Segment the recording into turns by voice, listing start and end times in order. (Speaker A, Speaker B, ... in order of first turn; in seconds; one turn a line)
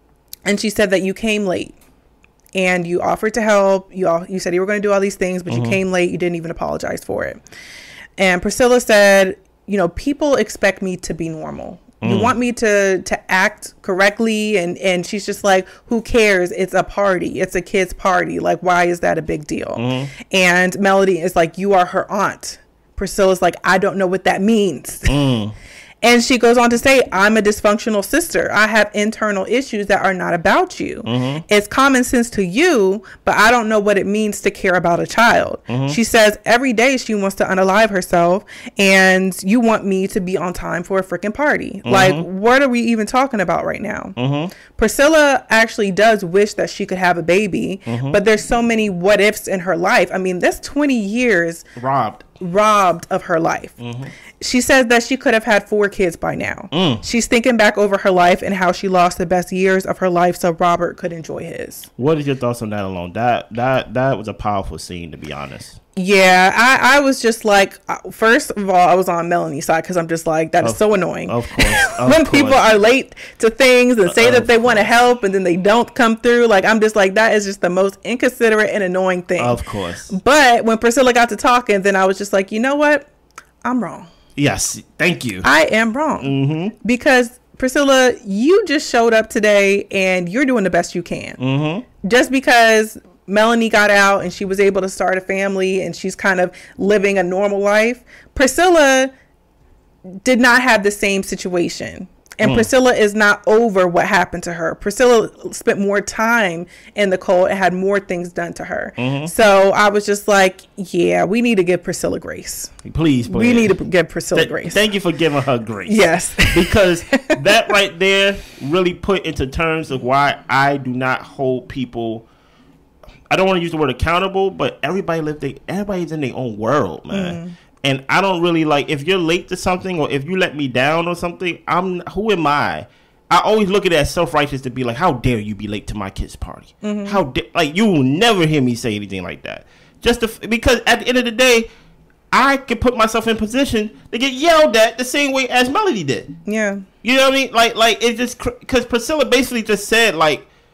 Speaker A: 0.5-1.7
Speaker A: 2.5-7.4
Speaker B: 5.5-5.8
Speaker A: 8.2-25.2
Speaker B: 12.0-12.3
Speaker B: 19.8-20.1
Speaker B: 25.1-25.6
Speaker A: 26.0-44.1
Speaker B: 31.0-31.4
Speaker B: 35.7-36.0
Speaker B: 41.9-42.3
Speaker B: 44.2-44.5
Speaker A: 44.7-51.7
Speaker B: 47.9-48.2
Speaker B: 51.8-52.3
Speaker A: 52.3-53.8
Speaker B: 53.8-54.1
Speaker A: 54.4-61.9
Speaker B: 56.7-57.0
Speaker B: 62.0-65.8
Speaker A: 66.0-79.6
Speaker B: 70.6-72.7
Speaker B: 74.1-74.9
Speaker B: 79.4-80.1
Speaker A: 80.1-83.1
Speaker A: 83.6-84.1
Speaker B: 84.4-85.5
Speaker A: 85.4-91.4
Speaker B: 86.2-86.8
Speaker B: 91.4-91.8
Speaker A: 92.0-99.1
Speaker A: 100.2-112.7
Speaker B: 102.4-102.7
Speaker B: 109.0-109.3
Speaker B: 112.8-113.8
Speaker A: 113.2-114.8
Speaker B: 114.3-122.3
Speaker A: 115.9-117.4
Speaker B: 123.3-141.7
Speaker A: 127.1-127.6
Speaker A: 136.8-137.2
Speaker B: 142.3-146.3
Speaker A: 146.5-146.9
Speaker B: 147.0-150.4